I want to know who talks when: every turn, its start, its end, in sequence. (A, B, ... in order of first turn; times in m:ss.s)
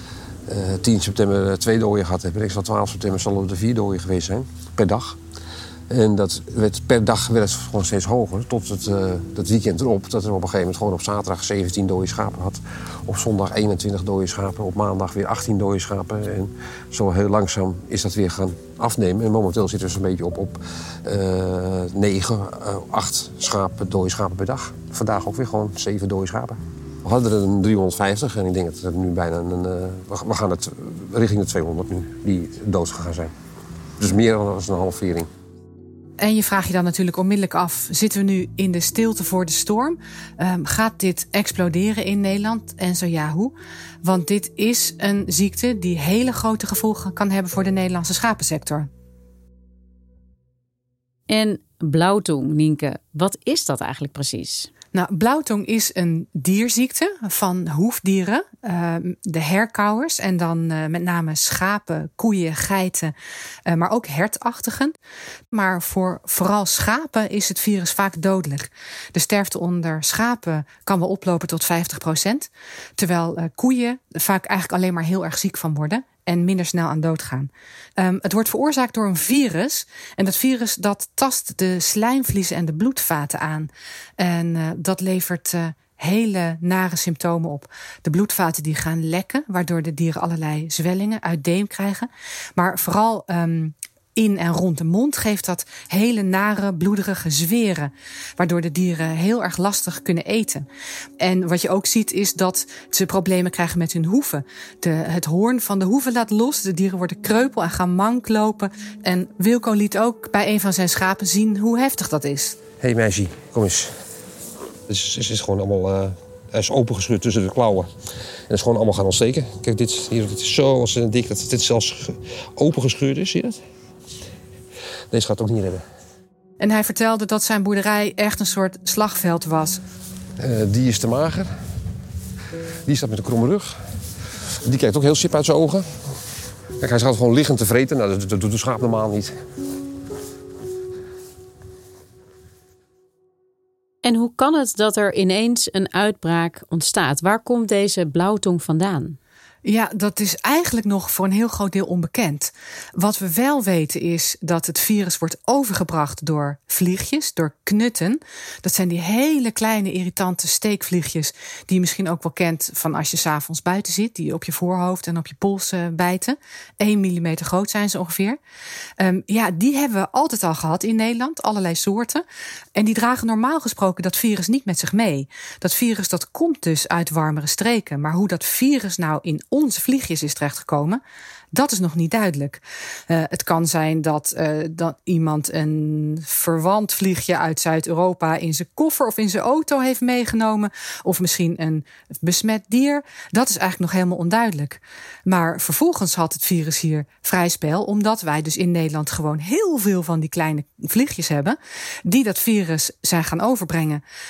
0:00.5-0:05.2 A
0:05.9-0:33.3 A
0:34.0-0:35.3 A
0:36.2-0:48.9 B
0:51.3-0:54.7 C
0:54.9-1:03.1 B
1:03.7-1:04.9 B
1:05.5-1:40.7 B
1:41.2-1:52.6 B
1:52.8-1:53.9 A
1:54.9-1:57.9 A
1:58.5-2:03.6 A
2:05.1-2:05.8 A
2:06.6-2:09.8 B
2:10.4-2:11.5 A
2:12.8-2:13.8 A
2:14.6-2:15.8 A
2:16.8-2:19.3 A
2:24.0-2:29.2 C
2:29.6-2:48.4 B
2:49.0-2:52.2 B
2:52.8-3:01.0 B
3:01.5-3:24.0 B